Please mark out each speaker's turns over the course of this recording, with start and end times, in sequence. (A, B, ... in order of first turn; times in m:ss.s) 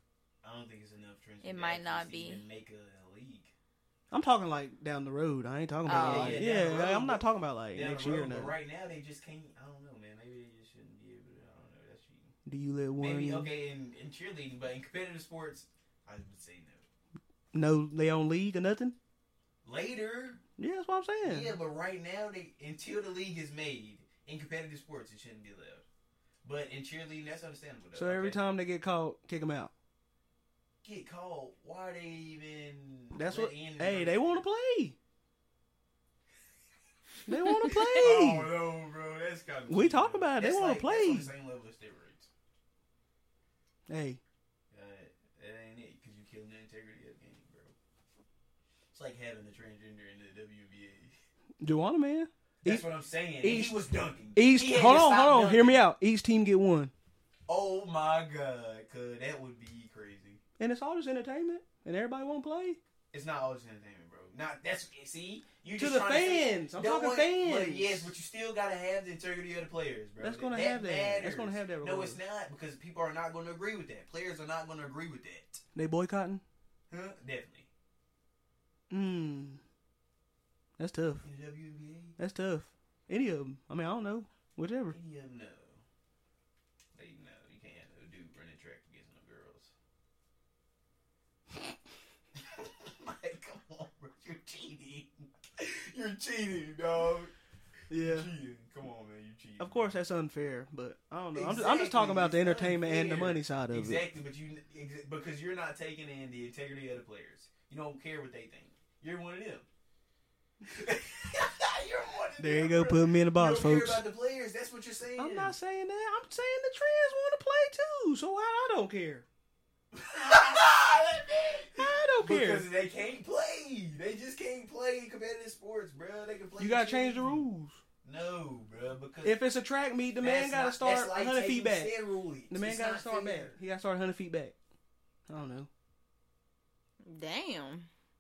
0:00.4-0:03.5 A
0:01.4-0:02.4 B
0:04.1-0:08.6 C
0:05.9-0:06.5 B
0:05.9-0:12.4 A
0:12.5-0:13.5 C
0:13.0-0:16.9 A
0:17.5-0:19.0 C
0:19.6-0:20.4 A
0:20.6-0:21.6 C
0:21.2-0:25.9 A
0:26.4-0:28.4 A
0:27.9-0:29.7 C
0:30.8-0:34.4 A
0:33.1-0:35.0 C
0:37.3-0:38.5 C
0:37.4-0:37.9 B
0:37.6-0:42.3 A
0:39.7-0:41.3 C
0:43.9-0:44.2 C
0:44.7-0:47.8 A
0:48.9-0:51.1 A
0:51.6-0:52.9 C
0:52.6-0:55.8 A
0:53.4-0:53.8 C
0:54.3-0:56.9 C
0:57.5-1:00.4 A
1:00.6-1:02.8 C
1:03.1-1:15.6 A
1:05.8-1:08.1 C
1:10.2-1:12.2 C
1:15.8-1:16.4 C
1:16.9-1:17.7 A
1:18.9-1:19.6 C
1:20.8-1:21.3 C
1:21.2-1:22.2 A
1:22.2-1:25.0 C
1:24.9-1:25.8 A
1:26.9-1:29.7 A
1:32.4-1:37.3 A
1:37.9-1:38.3 C
1:38.0-1:40.0 A
1:39.6-1:44.0 C
1:41.3-1:49.7 A
1:50.6-1:55.6 A
1:52.4-1:54.0 C
1:55.2-1:59.2 C
1:59.9-2:07.5 A
2:01.8-2:02.7 C
2:06.6-2:07.8 C
2:08.0-2:09.4 A
2:09.2-2:11.9 C
2:10.2-2:13.6 A
2:12.5-2:14.6 C
2:15.3-2:15.7 C
2:17.0-2:17.9 B